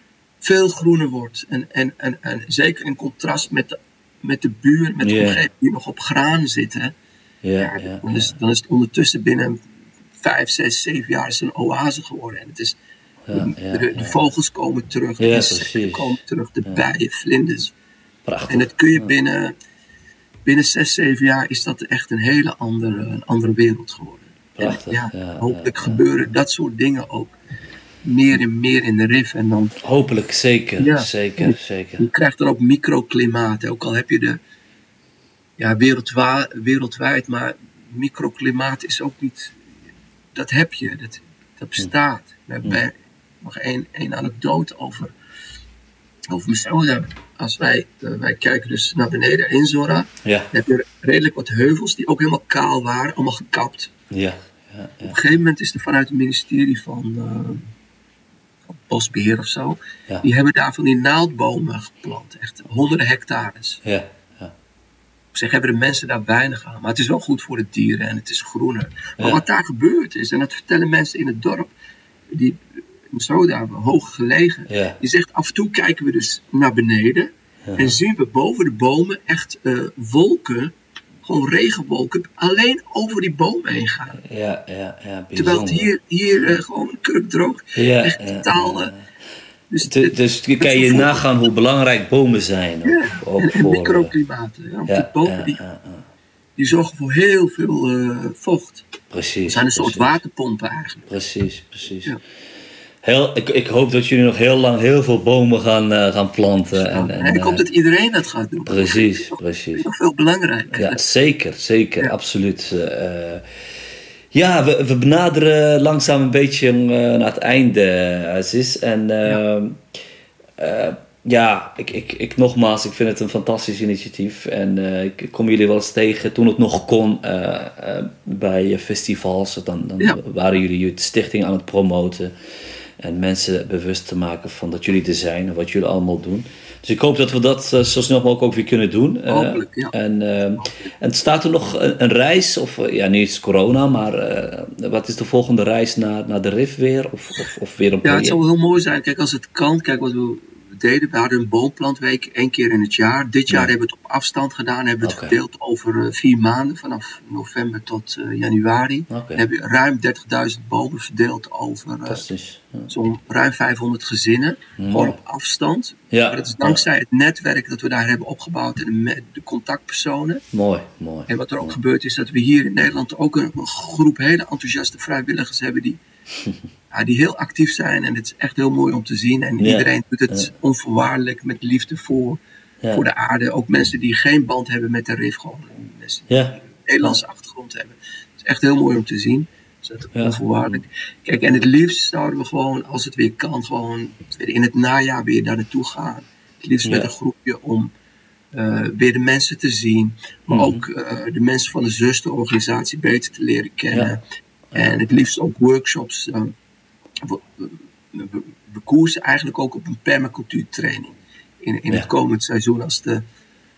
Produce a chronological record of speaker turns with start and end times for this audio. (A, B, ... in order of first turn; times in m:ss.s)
0:00.4-0:06.9 A
0:05.0-0:05.4 B
0:07.4-0:08.3 B
0:07.6-0:09.6 A
0:10.2-0:12.8 A
0:13.3-0:14.2 B
0:13.3-0:17.7 A
0:15.2-0:16.8 B
0:18.2-0:19.1 B
0:18.5-0:19.5 A
0:20.4-0:27.3 A
0:24.6-0:26.0 B
0:28.0-0:29.8 A
0:29.8-0:32.1 B
0:30.8-0:34.4 A
0:35.6-0:39.6 A
0:40.3-0:45.1 A
0:46.3-0:53.9 A
0:54.1-0:55.2 B
0:55.0-0:57.7 A
0:58.7-1:03.8 A
1:03.8-1:04.5 B
1:05.3-1:11.7 A
1:12.3-1:24.2 A
1:14.7-1:15.0 B
1:17.7-1:18.0 B
1:24.2-1:25.9 B
1:25.4-1:28.9 A
1:27.8-1:29.0 B
1:29.7-1:31.2 A
1:29.8-1:34.1 B
1:32.8-1:35.6 A
1:34.9-1:36.0 B
1:36.6-1:38.9 A
1:39.1-1:40.2 B
1:39.5-1:41.1 A
1:41.1-1:42.1 B
1:43.0-1:47.6 B
1:46.7-1:51.0 A
1:48.7-1:49.8 B
1:50.7-1:53.4 B
1:54.3-1:59.8 B
2:00.6-2:12.3 B
2:13.0-2:28.4 B
2:19.3-2:19.9 A
2:20.6-2:20.9 A
2:28.0-2:42.2 A
2:35.0-2:35.4 B
2:39.1-2:39.4 B
2:42.1-2:42.9 B
2:42.9-2:50.4 A
2:44.8-2:45.2 B
2:46.1-2:46.8 B
2:50.5-2:51.8 B
2:51.3-2:56.0 A
2:56.9-3:02.4 A
2:59.6-3:00.5 B
3:02.9-3:17.9 A
3:06.3-3:07.2 B
3:10.1-3:10.8 B
3:16.8-3:17.1 B
3:18.5-3:24.2 A
3:20.5-3:20.8 B
3:24.7-3:25.0 B
3:24.7-3:26.5 A
3:27.2-3:33.2 A